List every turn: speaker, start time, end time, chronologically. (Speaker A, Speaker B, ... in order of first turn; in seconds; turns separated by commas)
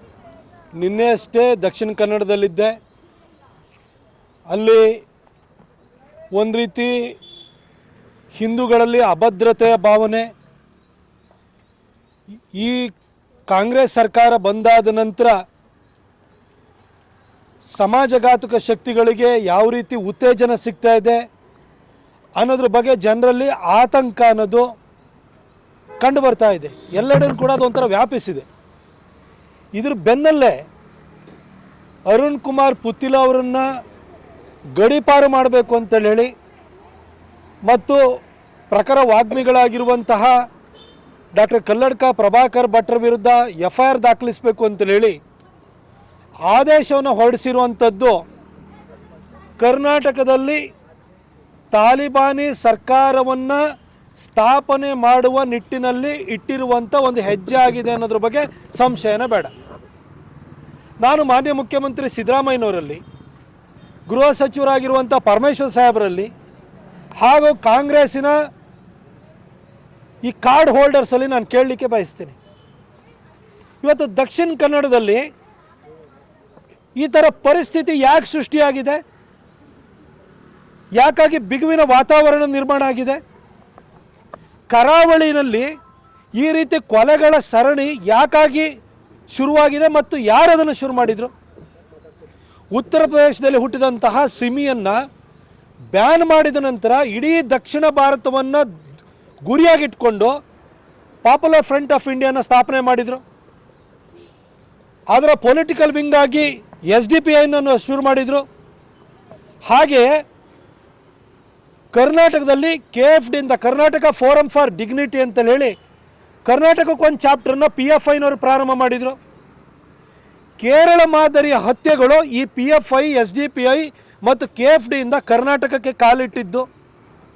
Speaker A: 0.8-2.7, Speaker A: 4.5-5.0, Speaker A: 6.3-7.0, Speaker A: 8.3-10.3, Speaker A: 12.6-12.9, Speaker A: 13.5-15.3, Speaker A: 17.7-21.2, Speaker A: 22.4-24.7, Speaker A: 26.0-28.4, Speaker A: 29.8-30.6, Speaker A: 32.1-33.6, Speaker A: 34.8-36.3, Speaker A: 37.7-38.0, Speaker A: 38.7-40.4, Speaker A: 41.3-45.2, Speaker A: 46.5-48.2, Speaker A: 49.6-50.6, Speaker A: 51.7-53.6, Speaker A: 54.2-59.5, Speaker A: 61.0-63.0, Speaker A: 64.1-66.3, Speaker A: 67.2-68.4, Speaker A: 70.2-72.4, Speaker A: 73.8-75.2, Speaker A: 77.0-79.0, Speaker A: 81.0-83.2, Speaker A: 84.7-85.7, Speaker A: 86.4-88.7, Speaker A: 89.3-91.3, Speaker A: 92.7-95.0, Speaker A: 95.9-98.6, Speaker A: 99.5-100.3, Speaker A: 101.2-103.2, Speaker A: 105.1-108.4, Speaker A: 109.7-110.1, Speaker A: 111.9-115.7, Speaker A: 116.5-119.1, Speaker A: 120.6-126.6